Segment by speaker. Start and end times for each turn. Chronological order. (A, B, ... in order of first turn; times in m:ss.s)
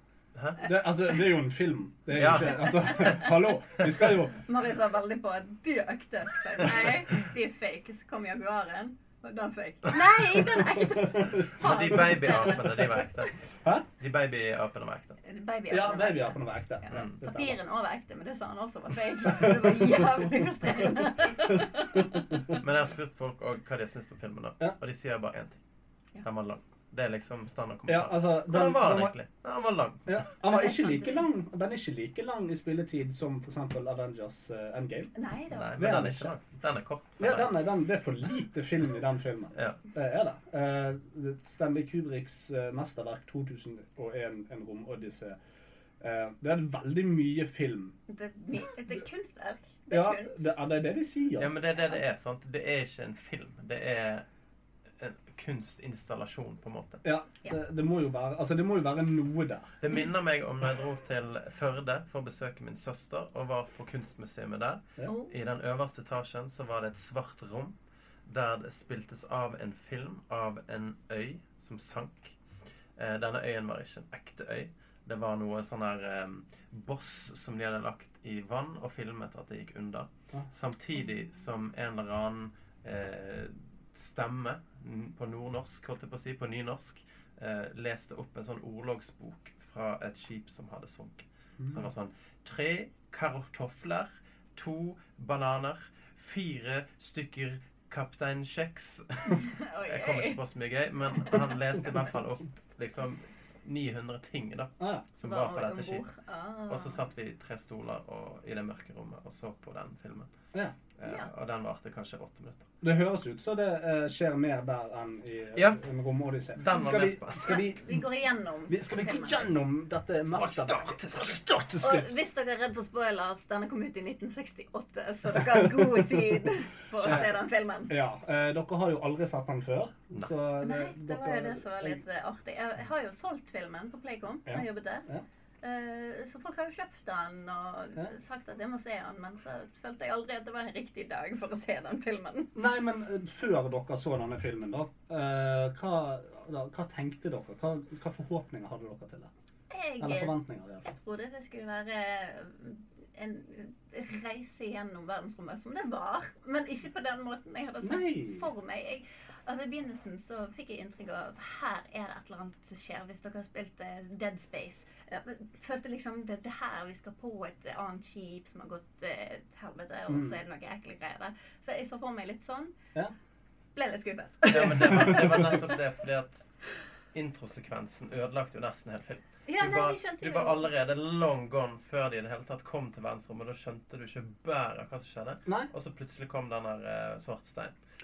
0:00.4-0:00.6 A
0:00.6-0:04.4 B
0:02.1-0:03.9 A
0:02.9-0:03.3 C
0:04.4-0:13.3 C
0:10.4-0:12.0 B
0:11.5-0:13.4 A
0:14.0-0:15.2 A
0:15.2-0:22.6 C
0:15.7-0:17.6 B
0:19.3-0:20.2 B
0:22.3-0:22.6 B
0:22.5-0:25.6 A
0:26.2-0:30.2 A
0:27.9-0:29.1 B
0:30.1-0:35.1 B
0:30.4-0:31.3 C
0:35.2-0:35.9 C
0:35.5-0:37.5 A
0:35.8-0:36.4 B
0:37.2-0:45.4 B
0:46.0-0:48.0 B
0:48.1-0:50.7 C
0:49.9-0:51.5 B
0:51.4-0:54.2 A
0:55.0-0:57.0 A
0:57.0-0:59.8 B
0:59.8-1:07.8 A
1:05.0-1:05.4 C
1:08.3-1:12.4 A
1:13.0-1:46.0 A
1:31.6-1:31.9 B
1:39.3-1:40.4 C
1:44.8-1:45.1 B
1:45.2-1:47.0 C
1:46.7-1:50.3 A
1:51.0-1:52.7 A
1:52.8-1:58.1 B
1:55.6-1:55.8 A
1:56.5-1:57.6 A
1:57.4-1:59.5 C
1:58.7-2:02.1 B
2:00.3-2:01.4 A
2:01.8-2:07.9 C
2:05.4-2:06.2 B
2:07.0-2:12.0 B
2:10.6-2:15.1 C
2:14.5-2:15.2 B
2:15.6-2:22.5 C
2:22.6-2:29.3 B
2:29.7-2:52.7 C
2:30.0-2:30.9 B
2:37.8-2:38.5 B
2:50.1-2:50.4 B
2:53.8-2:55.6 C
2:54.5-2:56.5 A
2:54.9-2:55.4 B
2:57.1-3:07.8 A
2:59.5-3:00.7 C
3:05.5-3:05.7 B